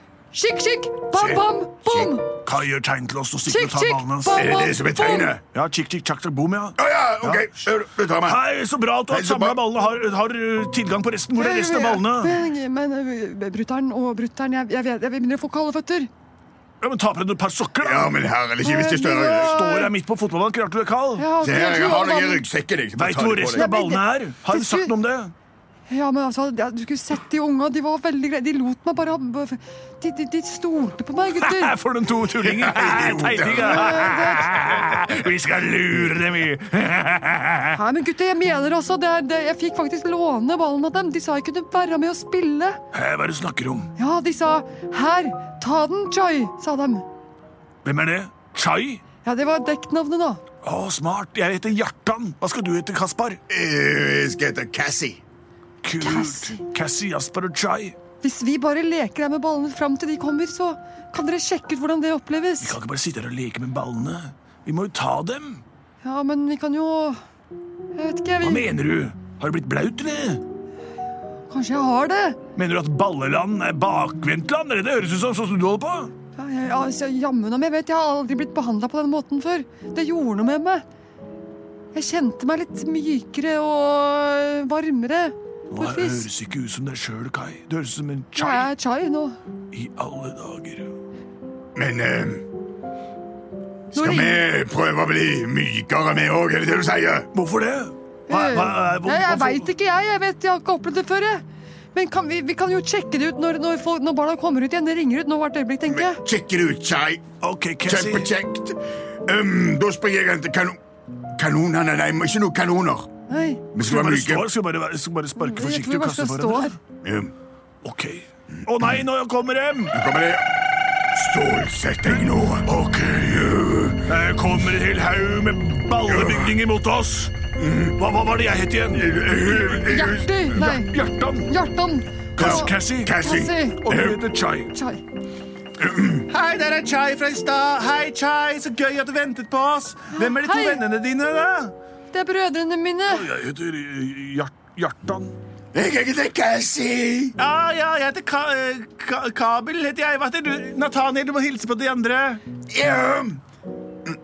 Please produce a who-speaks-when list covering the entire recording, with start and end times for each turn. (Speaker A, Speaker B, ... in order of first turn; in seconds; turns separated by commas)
Speaker A: 0.3-2.3, Speaker B: 1.1-1.4, Speaker B: 2.3-4.5, Speaker A: 3.5-5.4, Speaker C: 4.4-5.4, Speaker B: 5.5-7.6, Speaker C: 6.8-8.4, Speaker B: 8.2-12.4, Speaker C: 9.1-9.6, Speaker A: 11.3-16.1, Speaker B: 16.8-18.1, Speaker C: 17.8-19.6, Speaker A: 18.6-19.9, Speaker B: 19.4-21.3, Speaker A: 21.2-22.5, Speaker C: 21.4-23.8, Speaker B: 22.9-25.3, Speaker A: 23.5-24.9, Speaker A: 25.9-31.8, Speaker B: 31.3-37.8, Speaker C: 32.4-34.2, Speaker A: 33.5-34.5, Speaker A: 37.7-42.8, Speaker B: 42.9-43.9, Speaker A: 44.0-47.1, Speaker B: 47.8-49.0, Speaker A: 49.2-50.4, Speaker B: 50.6-53.4, Speaker C: 53.5-55.2, Speaker B: 55.8-58.0, Speaker A: 56.0-56.6, Speaker A: 58.2-62.8, Speaker B: 62.6-65.6, Speaker A: 66.0-67.2, Speaker A: 68.0-68.7, Speaker B: 68.4-70.4, Speaker A: 71.5-72.4, Speaker B: 72.5-76.1, Speaker A: 76.4-80.8, Speaker A: 81.9-86.3, Speaker B: 85.7-88.7, Speaker A: 88.4-89.4, Speaker B: 89.7-90.9, Speaker C: 91.8-92.5, Speaker C: 93.9-97.3, Speaker A: 93.9-94.4, Speaker B: 97.3-99.7, Speaker A: 98.3-101.4, Speaker A: 102.0-106.2, Speaker C: 105.9-107.2, Speaker B: 107.4-108.3, Speaker C: 107.8-110.8, Speaker C: 111.4-113.1, Speaker A: 113.3-113.7, Speaker C: 113.7-114.5, Speaker B: 113.8-116.8, Speaker A: 115.4-116.8, Speaker C: 117.0-117.3, Speaker B: 117.8-120.0, Speaker C: 119.9-120.4, Speaker C: 121.1-122.7, Speaker B: 122.7-127.4, Speaker C: 123.3-124.0, Speaker C: 126.0-126.6, Speaker C: 127.6-128.0, Speaker B: 128.0-131.5, Speaker C: 128.9-130.4, Speaker A: 129.9-130.9, Speaker A: 131.4-133.9, Speaker B: 132.3-133.2, Speaker C: 132.4-134.2, Speaker B: 133.8-134.7, Speaker A: 134.7-135.0, Speaker C: 135.8-136.2, Speaker B: 136.3-141.7, Speaker A: 140.1-140.8, Speaker A: 142.1-143.3, Speaker B: 143.1-145.3, Speaker C: 145.7-147.4, Speaker B: 147.4-152.4, Speaker C: 152.7-153.4